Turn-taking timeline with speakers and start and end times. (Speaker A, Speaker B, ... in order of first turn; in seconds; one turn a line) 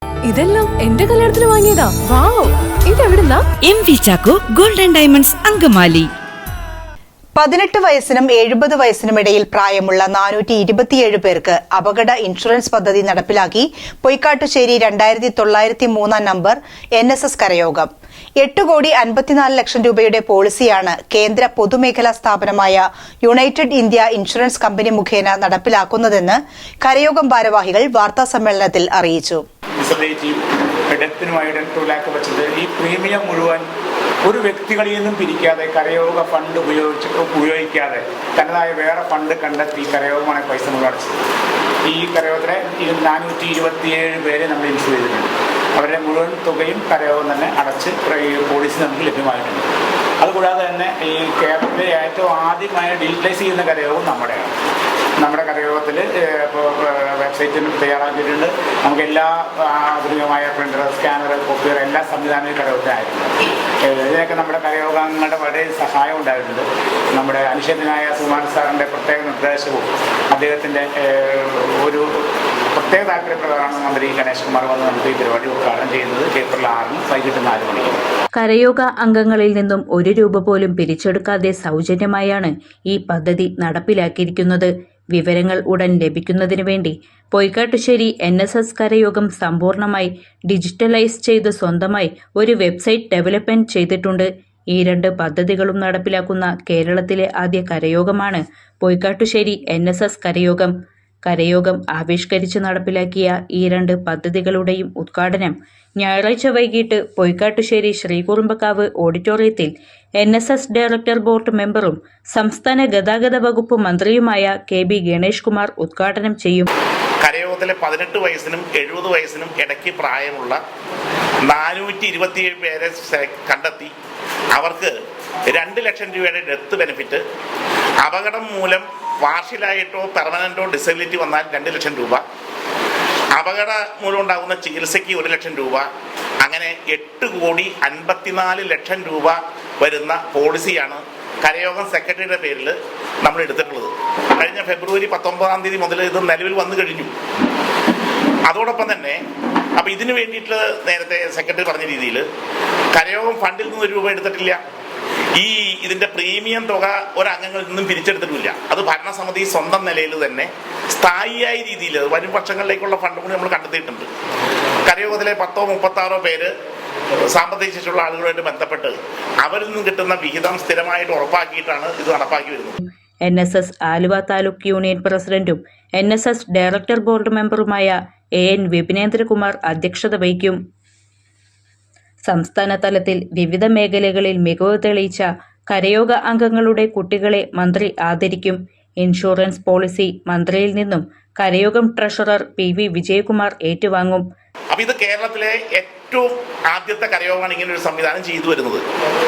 Speaker A: 0.3-3.4
Speaker B: 3.6-6.1
Speaker C: 7.4-29.4
Speaker D: 29.8-33.7
Speaker D: 34.2-41.2
Speaker D: 41.9-49.7
Speaker D: 50.2-54.6
Speaker D: 55.2-63.3
Speaker D: 63.8-72.1
Speaker D: 72.7-78.0
Speaker E: 78.3-100.7
Speaker E: 101.2-116.7
Speaker F: 117.2-120.6
Speaker F: 121.5-123.9
Speaker F: 124.5-124.9
Speaker F: 125.5-127.2
Speaker F: 128.0-132.2
Speaker F: 133.4-135.9
Speaker F: 136.4-147.1
Speaker F: 148.5-149.2
Speaker F: 149.8-152.2
Speaker F: 153.0-154.6
Speaker F: 155.4-164.1
Speaker F: 164.9-166.5
Speaker F: 167.3-172.8
Speaker E: 173.2-180.6
Speaker E: 182.3-194.3
Speaker F: 194.7-198.8